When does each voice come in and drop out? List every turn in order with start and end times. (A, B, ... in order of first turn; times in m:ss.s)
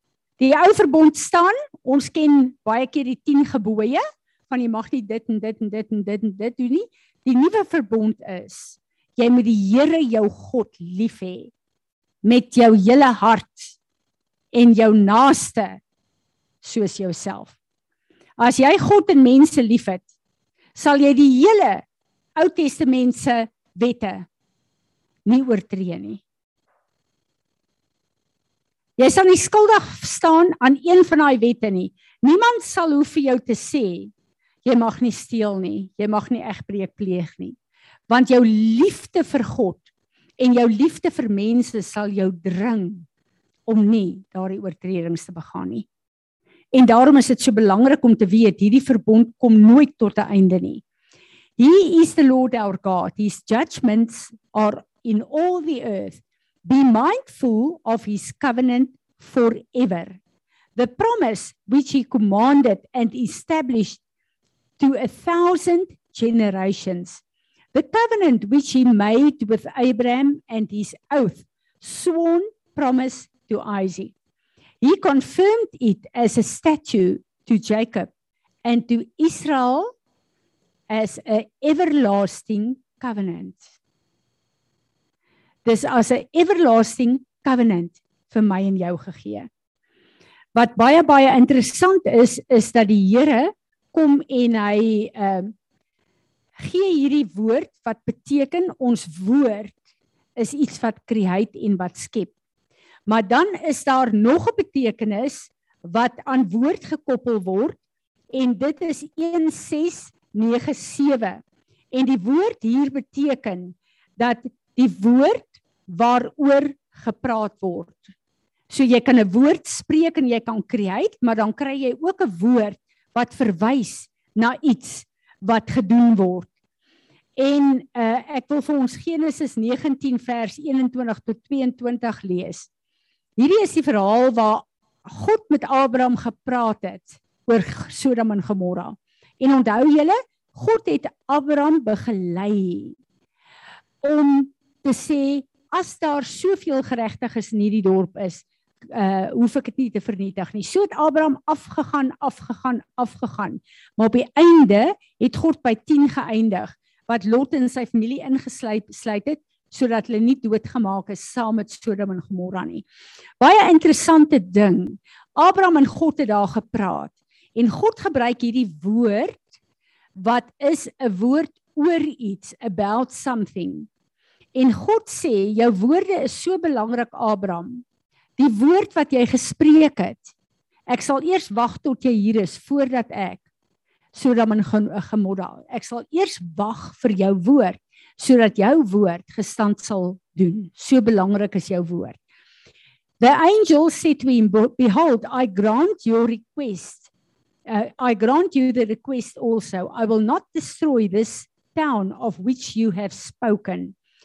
0:00.4-0:11.5 A
0:12.2-0:13.8 A
0:14.5-0:15.8 A
0:16.6-0:17.5 A
0:18.4-0:20.1 A
0:20.7-0:21.8 A
0:22.4-0:24.3 A
0:25.2-0:26.2 A
0:29.0-0:34.1 A
0:34.6-0:37.6 A
0:38.1-0:39.8 A
0:40.4-0:43.0 A
0:43.7-0:45.9 A
0:46.7-0:50.8 A
0:51.6-1:00.2 A
1:00.8-1:04.0 A
1:04.8-1:07.2 A
1:07.7-1:14.1 A
1:14.8-1:18.1 A
1:18.6-1:19.9 A
1:20.9-1:23.6 A
1:25.6-1:29.5 A
1:30.5-1:35.5 A
1:36.6-1:39.7 A
1:40.4-1:42.3 A
1:43.1-1:47.8 A
1:48.3-1:51.4 A
1:51.9-1:58.1 A
1:58.7-2:06.5 A
2:07.4-2:12.7 A
2:13.4-2:23.0 A
2:24.0-2:42.8 A
2:43.4-2:49.4 A
2:50.2-2:53.9 A
2:54.5-2:57.8 A
2:58.4-3:00.3 A
3:00.9-3:03.4 A
3:04.1-3:12.2 A
3:13.2-3:17.0 A
3:17.7-3:23.9 A